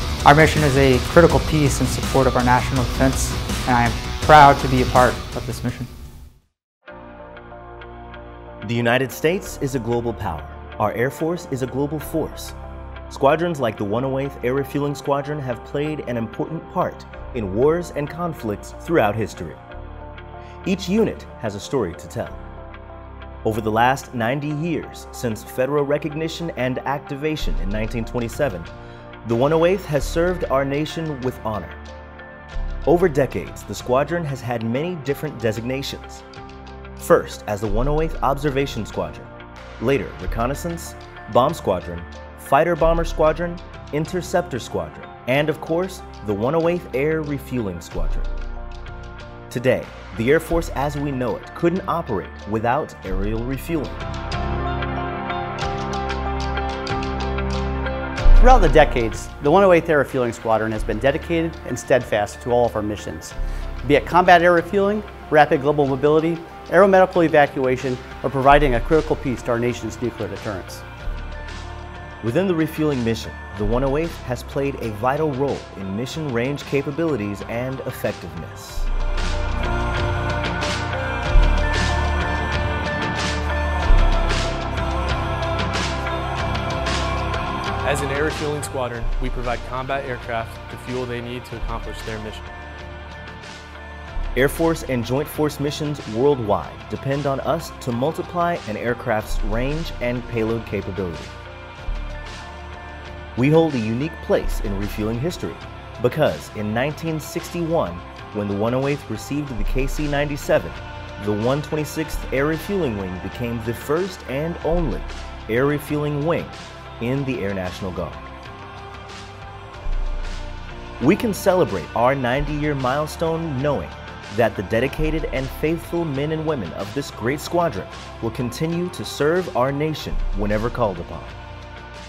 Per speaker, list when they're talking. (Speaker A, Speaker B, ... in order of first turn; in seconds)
Speaker A: 0.2-5.9
Speaker B: 8.6-12.6, 13.1-19.6, 20.6-22.4, 23.4-28.7, 29.2-31.8, 32.9-36.2, 37.0-48.3, 49.5-54.1, 72.2-78.9, 94.4-101.3, 103.4-118.3, 121.0-131.4
Speaker C: 58.4-70.8
Speaker D: 87.8-92.5